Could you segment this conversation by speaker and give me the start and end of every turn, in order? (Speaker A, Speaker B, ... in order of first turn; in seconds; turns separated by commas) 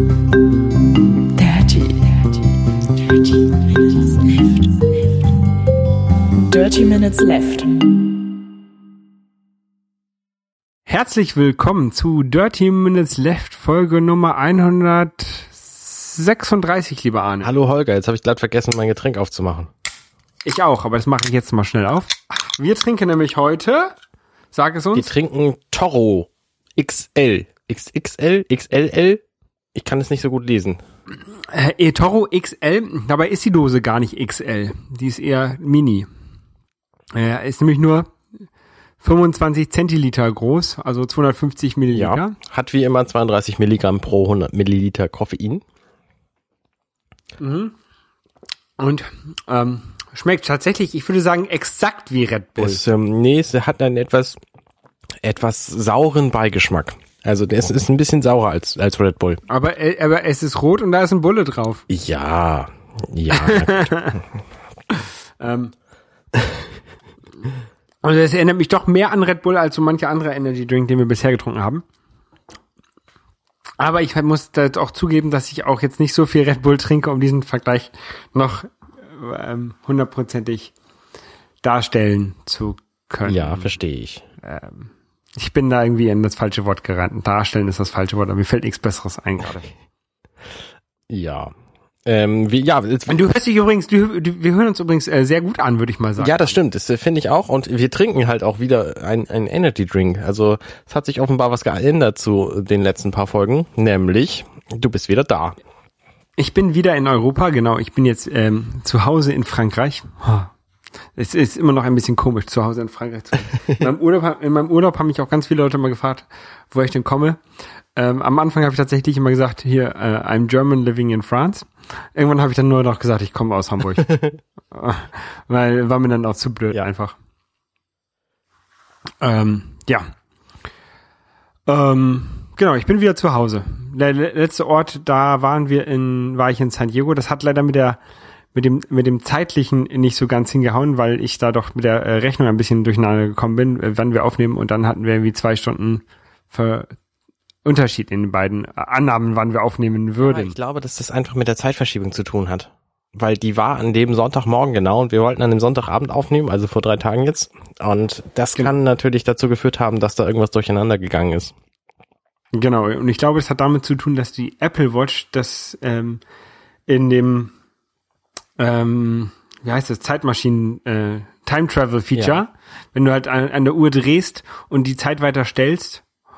Speaker A: 1.4-2.4, Speaker A: 3.0-4.7, Speaker A: 6.4-7.7, Speaker B: 10.9-17.5, Speaker C: 17.4-19.7, Speaker B: 20.4-23.9, Speaker B: 24.5-25.1, Speaker C: 24.9-29.2, Speaker C: 29.8-30.8, Speaker B: 31.5-36.1, Speaker B: 37.1-38.1, Speaker B: 39.0-42.4, Speaker C: 42.0-45.6, Speaker B: 47.4-47.8, Speaker B: 48.8-52.8, Speaker C: 52.6-54.4, Speaker C: 55.2-59.4, Speaker B: 59.5-61.9, Speaker C: 61.9-64.2, Speaker B: 63.3-64.2, Speaker B: 65.4-65.7, Speaker C: 66.3-66.6, Speaker B: 68.0-71.8, Speaker B: 73.8-80.7, Speaker B: 81.6-83.7, Speaker C: 83.2-84.2, Speaker B: 84.4-89.7, Speaker C: 91.1-91.5, Speaker C: 92.0-93.2, Speaker B: 93.1-96.6, Speaker C: 96.2-105.6, Speaker B: 106.4-110.5, Speaker B: 111.2-117.4, Speaker B: 118.0-124.1, Speaker B: 124.7-127.2, Speaker B: 129.2-130.1, Speaker B: 131.7-138.0, Speaker B: 138.5-146.9, Speaker B: 147.7-150.6, Speaker C: 150.2-161.5, Speaker B: 162.6-166.2, Speaker B: 166.9-167.5, Speaker B: 168.6-176.0